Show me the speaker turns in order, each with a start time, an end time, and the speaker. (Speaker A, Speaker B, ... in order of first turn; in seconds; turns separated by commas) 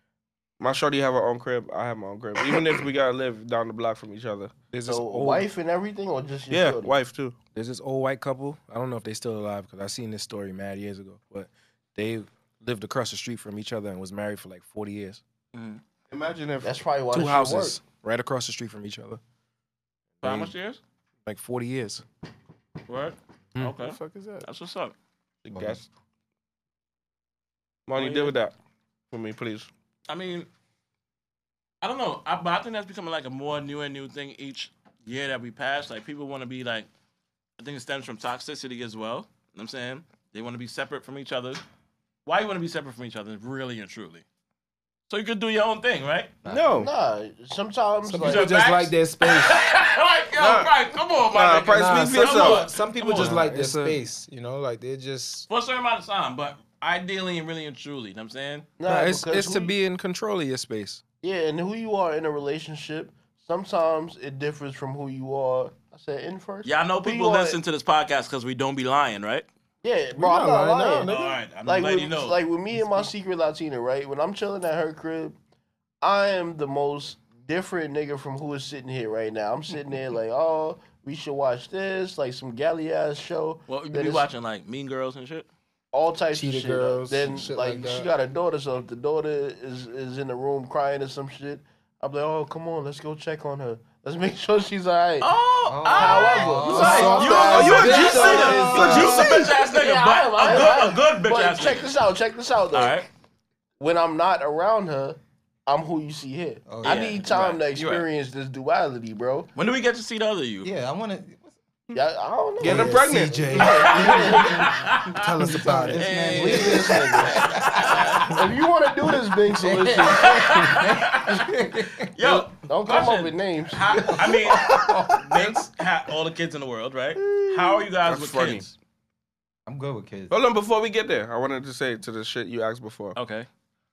Speaker A: 0.6-4.6, Speaker B: 4.7-5.5, Speaker C: 4.8-6.9, Speaker A: 6.5-7.4, Speaker B: 7.5-15.2, Speaker D: 15.5-15.8, Speaker A: 16.1-16.8, Speaker C: 16.6-17.8, Speaker B: 17.1-19.2, Speaker D: 20.2-20.8, Speaker B: 20.2-20.5, Speaker B: 21.2-22.0, Speaker D: 22.9-24.9, Speaker A: 25.4-25.9, Speaker A: 27.9-28.5, Speaker D: 27.9-28.3, Speaker A: 29.1-29.7, Speaker D: 30.1-30.5, Speaker D: 31.8-36.9, Speaker D: 37.6-41.6, Speaker D: 42.2-44.2, Speaker D: 45.1-46.3, Speaker E: 46.4-46.7, Speaker A: 46.5-46.9, Speaker C: 46.7-48.5, Speaker F: 48.0-49.6, Speaker D: 48.2-53.4, Speaker A: 50.3-50.7, Speaker A: 51.2-52.7, Speaker F: 51.7-55.5, Speaker B: 53.1-54.0, Speaker D: 55.5-58.7, Speaker C: 58.8-59.7, Speaker B: 58.8-61.0, Speaker C: 61.2-67.6, Speaker D: 66.6-69.5, Speaker C: 69.8-75.4, Speaker F: 70.1-71.4, Speaker D: 71.0-72.4, Speaker C: 76.0-84.3, Speaker D: 83.7-85.5, Speaker C: 85.9-95.3, Speaker F: 86.3-88.1, Speaker D: 95.2-101.9, Speaker E: 95.7-97.8, Speaker C: 95.9-103.0, Speaker F: 96.7-99.3, Speaker A: 97.2-99.5, Speaker D: 102.7-103.1, Speaker C: 103.8-109.5, Speaker E: 106.7-107.2, Speaker D: 106.8-107.6, Speaker B: 107.8-108.0, Speaker D: 109.5-110.7, Speaker E: 110.6-111.5, Speaker C: 111.9-114.7, Speaker A: 112.6-113.6, Speaker F: 112.6-114.5, Speaker D: 113.7-115.2, Speaker E: 114.3-114.7, Speaker F: 115.0-116.6, Speaker E: 115.4-118.3, Speaker D: 115.9-118.4, Speaker C: 116.2-117.4, Speaker C: 118.2-120.5, Speaker E: 119.6-122.1, Speaker D: 119.9-121.5, Speaker D: 122.1-128.7, Speaker C: 122.2-124.2, Speaker E: 123.9-125.5, Speaker A: 128.0-128.7, Speaker E: 129.7-130.3, Speaker A: 130.3-133.2, Speaker D: 133.2-133.5